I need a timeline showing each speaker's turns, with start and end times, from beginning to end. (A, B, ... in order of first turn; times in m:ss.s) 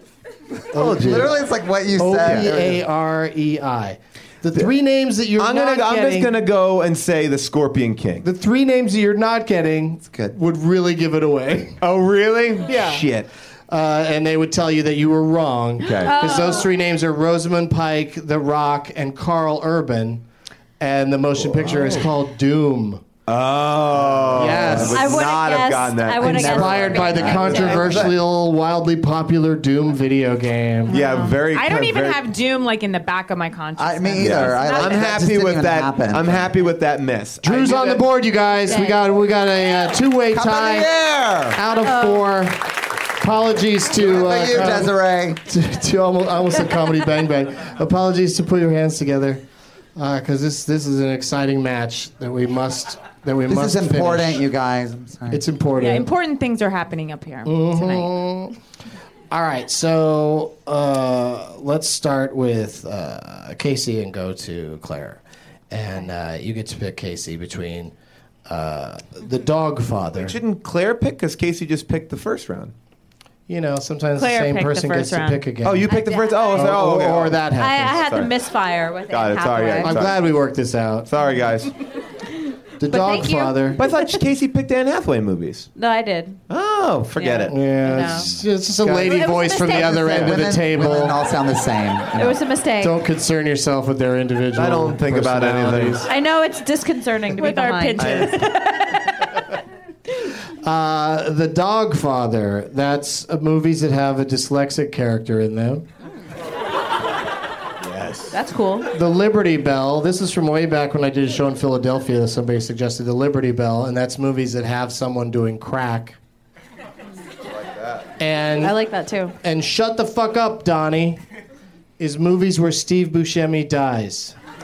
0:00.7-0:01.4 A
0:00.8-0:01.4 B
0:00.8-0:02.8 C
0:02.0-0:06.3 A
0:05.4-0:08.3 B
0:08.2-0:11.8 A
0:10.1-0:10.3 C
0:11.8-0:13.3 B
0:12.7-0:13.1 A
0:13.7-0:20.2 A
0:15.8-0:16.2 B
0:16.0-0:16.7 D
0:20.8-0:23.0 A
0:21.4-0:22.1 B
0:23.3-0:28.1 B
0:23.9-0:25.2 C
0:24.3-0:25.0 A
0:24.9-0:28.0 D
0:26.2-0:31.0 A
0:26.6-0:28.1 C
0:30.9-0:32.2 B
0:30.9-0:35.1 E
0:33.8-0:36.6 C
0:34.2-0:38.0 B
0:37.4-0:40.9 A
0:38.7-0:39.0 D
0:40.3-0:41.6 C
0:41.5-0:49.4 A
0:41.8-0:42.2 D
0:43.9-0:45.4 C
0:50.0-0:54.4 A
0:53.5-0:55.4 C
0:55.3-0:56.1 A
0:55.8-0:58.1 E
0:57.4-0:58.5 A
0:59.3-1:07.9 A
1:08.5-1:10.4 A
1:10.2-1:12.7 B
1:13.5-1:15.9 A
1:14.2-1:15.4 E
1:15.6-1:18.3 B
1:15.9-1:16.8 D
1:16.5-1:18.0 A
1:17.5-1:20.0 D
1:19.1-1:20.2 B
1:19.8-1:21.1 A
1:21.1-1:21.7 B
1:22.8-1:23.8 A
1:22.9-1:24.0 D
1:23.8-1:25.7 B
1:25.8-1:26.4 D
1:26.5-1:27.7 B
1:27.2-1:28.3 D
1:27.5-1:31.2 A
1:28.9-1:30.3 D
1:29.8-1:32.4 C
1:32.2-1:33.0 D
1:32.8-1:36.1 A
1:34.6-1:36.1 B
1:36.1-1:38.8 D
1:37.4-1:39.0 E
1:38.0-1:38.4 B
1:40.6-1:45.9 A
1:47.8-1:48.4 B
1:48.3-1:48.9 D
1:48.9-1:56.2 A
1:57.7-1:58.0 B
1:58.2-1:58.8 A
1:58.6-1:59.4 D
1:59.4-2:01.2 A
2:02.0-2:04.4 A